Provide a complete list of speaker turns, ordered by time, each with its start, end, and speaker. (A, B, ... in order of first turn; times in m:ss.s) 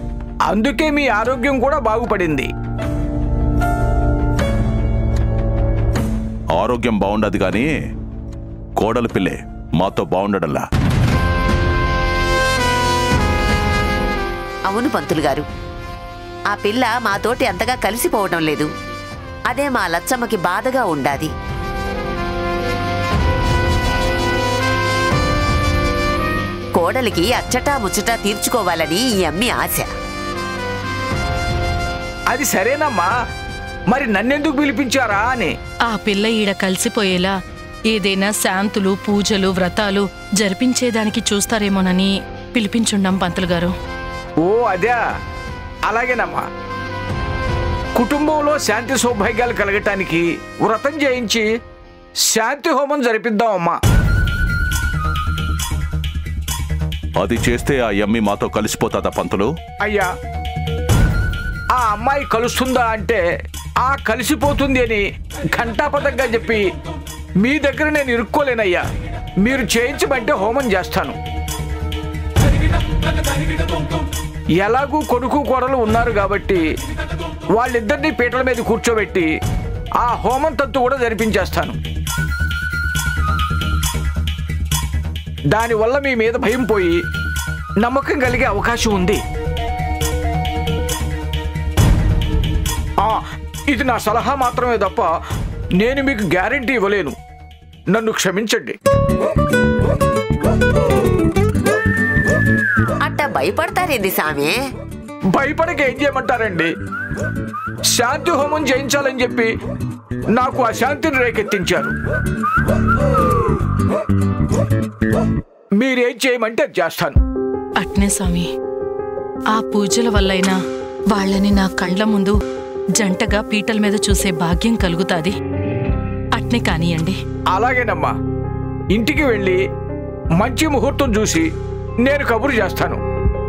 0:00.5-0:02.5 A
0:06.6-0:07.7 B
0:08.8-0:10.6 B
0:14.7-0:15.4 C
0:16.5-0:18.7 C
0:19.5-0:21.3 C
0:26.8-0:29.9 C
0:32.3-0:33.1 A
0:33.9-0:35.6 A
0:35.9-0:37.4 D
0:37.9-0:43.7 D
0:44.4-0:45.0 A
0:45.9-0:46.4 A
0:48.0-0:51.5 A
0:52.2-0:53.8 A
0:57.2-0:59.5 B
0:59.8-1:00.1 A
1:01.7-1:03.2 A
1:03.8-1:06.7 A
1:07.4-1:08.8 A
1:09.4-1:11.2 A
1:14.6-1:16.6 A
1:17.6-1:19.3 A
1:20.0-1:21.8 A
1:25.5-1:27.0 A
1:27.8-1:29.2 A
1:33.0-1:35.1 A
1:35.8-1:37.2 A
1:37.9-1:38.8 A
1:43.0-1:44.6 C
1:45.3-1:46.7 A
1:47.9-1:49.5 A
1:50.3-1:51.9 A
1:55.8-1:57.2 A
1:57.8-1:58.5 D
1:59.5-2:00.6 D
2:01.1-2:02.4 D
2:03.0-2:05.3 D
2:06.4-2:07.2 D
2:07.5-2:08.1 A
2:08.9-2:09.6 A
2:10.4-2:11.5 A
2:12.0-2:13.0 A